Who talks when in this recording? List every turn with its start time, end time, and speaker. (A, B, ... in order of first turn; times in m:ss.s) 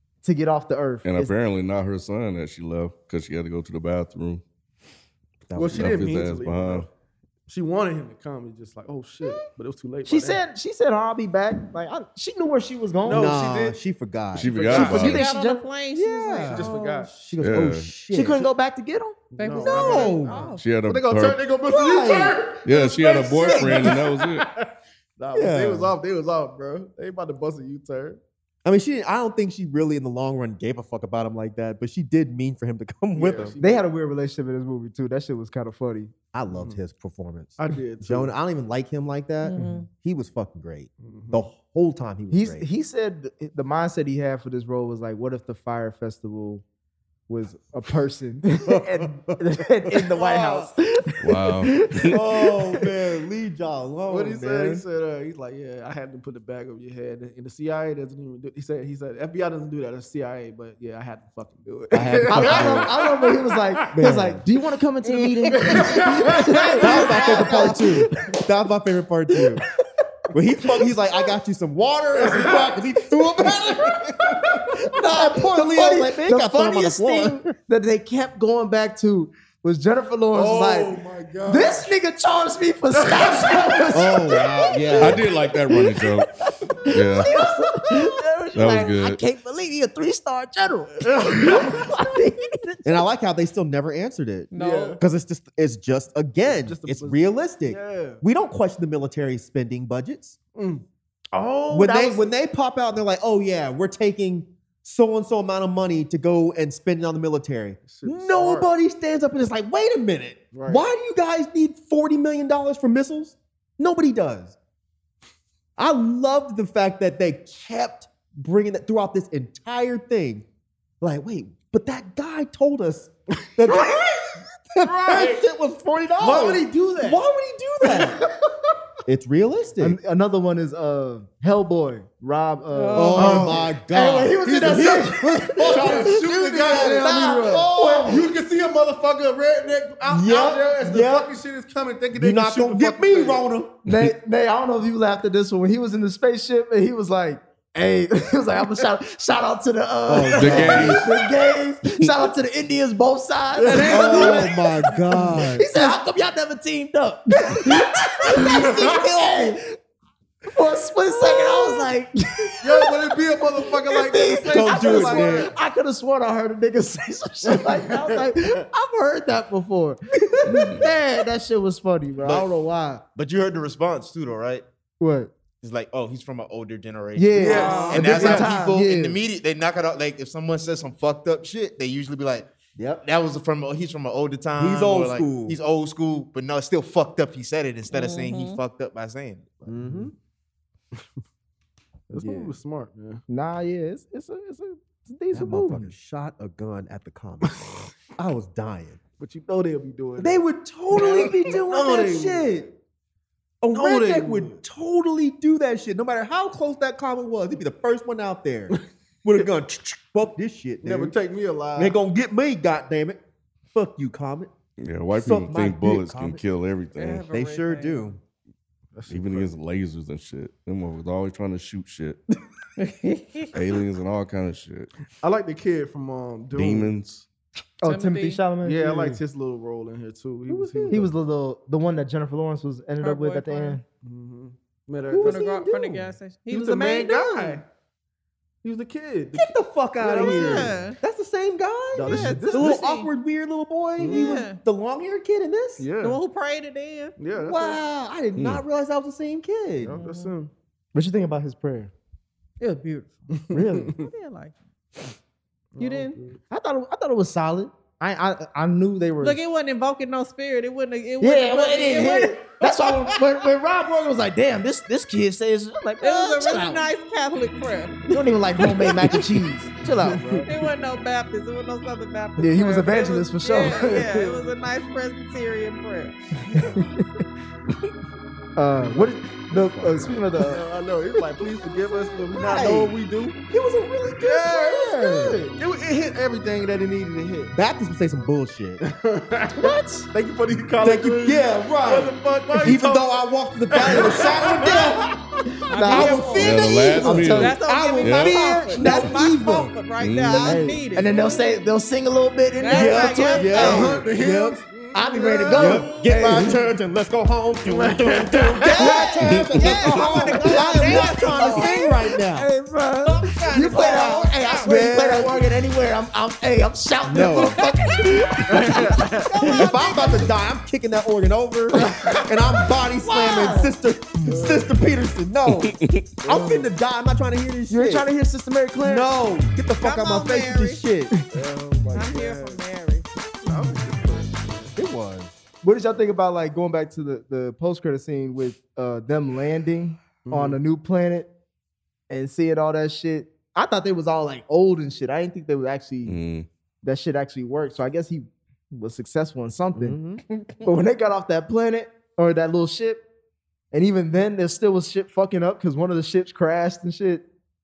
0:00.2-0:01.3 A
0:01.0-0:04.4 B
0:05.5-0:06.1 C
0:05.5-0:06.9 D
0:05.7-0:06.9 B
0:07.5-0:10.4 D
0:10.0-0:13.4 A
0:13.0-0:13.8 D
0:13.0-0:14.7 C
0:14.3-0:15.2 B
0:14.4-0:15.2 D
0:14.7-0:17.1 E
0:14.8-0:15.7 A
0:15.9-0:18.5 C
0:16.4-0:17.1 D
0:17.4-0:17.9 B
0:18.1-0:19.2 A
0:19.3-0:28.2 D
0:19.4-0:20.6 E
0:19.6-0:20.4 C
0:20.6-0:21.4 B
0:21.6-0:22.4 C
0:22.6-0:24.4 B
0:23.3-0:23.8 C
0:25.3-0:25.9 C
0:28.6-0:33.6 C
0:33.1-0:33.8 D
0:33.6-0:36.1 A
0:36.3-0:42.7 C
0:36.5-0:36.8 D
0:37.6-0:38.3 D
0:39.4-0:39.9 E
0:41.0-0:41.4 D
0:42.3-0:46.6 A
0:47.3-0:52.8 A
0:48.6-0:49.4 C
0:49.9-0:50.7 C
0:51.2-0:52.2 B
0:52.1-0:54.8 C
0:54.1-1:04.2 D
1:02.0-1:02.9 F
1:02.0-1:02.9 C
1:02.3-1:08.3 A
1:03.9-1:04.4 C
1:05.3-1:07.4 D
1:06.5-1:07.8 E
1:06.8-1:09.6 C
1:10.3-1:17.4 C
1:12.2-1:12.8 D
1:13.4-1:13.9 D
1:14.8-1:33.0 A
1:20.3-1:21.9 D
1:23.0-1:24.4 D
1:23.9-1:25.2 C
1:25.0-1:26.3 B
1:26.9-1:27.3 B
1:28.5-1:29.2 B
1:31.0-1:32.0 D
1:32.8-1:40.4 C
1:34.5-1:35.0 E
1:34.5-1:35.0 D
1:36.4-1:38.2 D
1:40.5-1:42.2 D
1:41.7-1:54.6 C
1:47.8-1:48.7 D
1:50.5-1:50.8 D
1:55.8-2:00.4 C
2:01.0-2:08.2 C
2:03.7-2:04.0 D
2:04.8-2:05.4 D
2:06.2-2:07.1 D
2:09.0-2:10.0 C
2:09.8-2:18.2 A
2:12.7-2:13.6 E
2:12.9-2:18.2 C
2:13.1-2:13.7 D
2:14.4-2:23.4 D
2:20.1-2:21.3 C
2:22.1-2:23.9 C
2:23.8-2:39.6 A
2:30.1-2:31.1 C
2:30.3-2:31.0 B
2:33.6-2:35.0 D
2:33.8-2:35.7 C
2:38.3-2:39.6 C
2:38.4-2:39.0 D
2:40.5-2:43.0 A
2:42.6-2:45.5 D
2:43.8-2:53.0 A
2:44.5-2:45.5 C
2:47.5-2:48.2 D
2:52.2-2:52.5 F
2:53.1-2:54.6 F
2:55.0-2:55.3 A
2:55.6-3:09.8 F
2:57.2-2:59.2 A
2:57.4-2:58.6 D
2:57.4-2:58.3 E
2:57.7-2:58.4 C
3:04.6-3:05.6 C
3:07.9-3:08.6 E
3:09.6-3:10.1 C
3:12.1-3:13.2 D
3:12.2-3:12.5 A
3:13.3-3:15.9 A
3:15.3-3:19.0 C
3:17.5-3:17.8 D
3:19.2-3:22.7 D
3:20.2-3:22.7 C
3:23.6-3:31.1 C
3:23.7-3:24.6 D
3:30.8-3:32.0 D
3:31.8-3:33.2 C
3:33.7-3:34.5 C
3:34.8-3:37.2 B
3:35.1-3:36.4 C
3:36.9-3:38.1 E
3:37.3-3:38.2 C
3:38.9-3:39.5 D
3:39.1-3:42.2 B
3:42.8-3:43.6 E
3:43.5-3:44.9 B
3:45.2-3:46.9 D
3:46.6-3:47.3 B
3:47.8-3:49.2 A
3:47.8-3:48.4 E
3:48.6-3:51.1 D
3:50.5-3:51.0 C
3:50.9-3:53.8 A
3:53.0-3:53.8 E
3:54.0-3:55.4 D
3:55.1-3:56.1 C
3:55.2-3:57.6 E
3:56.5-3:57.6 D
3:58.6-4:00.8 D
3:59.3-4:05.8 C
4:00.1-4:01.0 E
4:01.9-4:02.8 D
4:02.0-4:03.1 E
4:04.0-4:04.4 D
4:04.1-4:04.6 E
4:05.8-4:06.2 D
4:06.0-4:07.1 E
4:07.2-4:07.8 D
4:07.3-4:10.0 C
4:08.4-4:08.6 B
4:09.8-4:10.5 D
4:09.9-4:10.3 E
4:10.9-4:11.9 A
4:12.6-4:14.5 E
4:13.3-4:14.1 D
4:13.5-4:13.8 A
4:15.7-4:16.4 D
4:15.8-4:16.2 E
4:16.5-4:19.4 A
4:19.2-4:22.4 E
4:21.2-4:26.8 A
4:26.0-4:28.1 E
4:28.1-4:30.5 A
4:30.0-4:30.5 D
4:30.4-4:36.2 E
4:32.4-4:34.1 A
4:36.6-4:37.0 A
4:38.6-4:40.6 A
4:38.9-4:43.4 D
4:41.8-4:42.9 C
4:43.5-4:45.4 C
4:44.2-4:47.5 D
4:47.5-4:48.8 C
4:48.8-4:55.2 D
4:49.5-4:50.1 C
4:50.8-4:55.1 C
4:55.7-5:01.7 E
4:55.7-4:57.7 A
4:55.8-4:59.2 C
4:56.4-4:58.6 B
4:58.2-4:59.7 A
5:00.0-5:00.6 B
5:00.4-5:04.0 A
5:02.6-5:04.0 E
5:02.7-5:04.6 C
5:02.9-5:06.6 D
5:04.9-5:06.6 A
5:05.5-5:12.5 C
5:07.6-5:09.1 D
5:08.7-5:11.9 E
5:08.8-5:20.3 A
5:13.0-5:14.8 E
5:13.4-5:14.3 D
5:14.6-5:15.4 C
5:17.0-5:17.6 C
5:17.2-5:18.8 E
5:18.5-5:19.5 D
5:19.4-5:28.1 C
5:23.0-5:23.7 A
5:24.2-5:24.8 D
5:25.4-5:26.0 B
5:26.3-5:26.7 D
5:27.7-5:29.1 A
5:28.8-5:31.1 C
5:29.8-5:30.8 E
5:31.3-5:32.6 D
5:31.9-5:33.1 E
5:33.4-5:34.8 D
5:34.7-5:35.4 C
5:35.6-5:41.3 A
5:40.2-5:40.6 D
5:42.1-5:46.2 A
5:46.0-5:46.5 B
5:46.8-5:50.0 A
5:49.7-5:50.2 C
5:50.5-5:53.0 A
5:53.7-5:57.2 A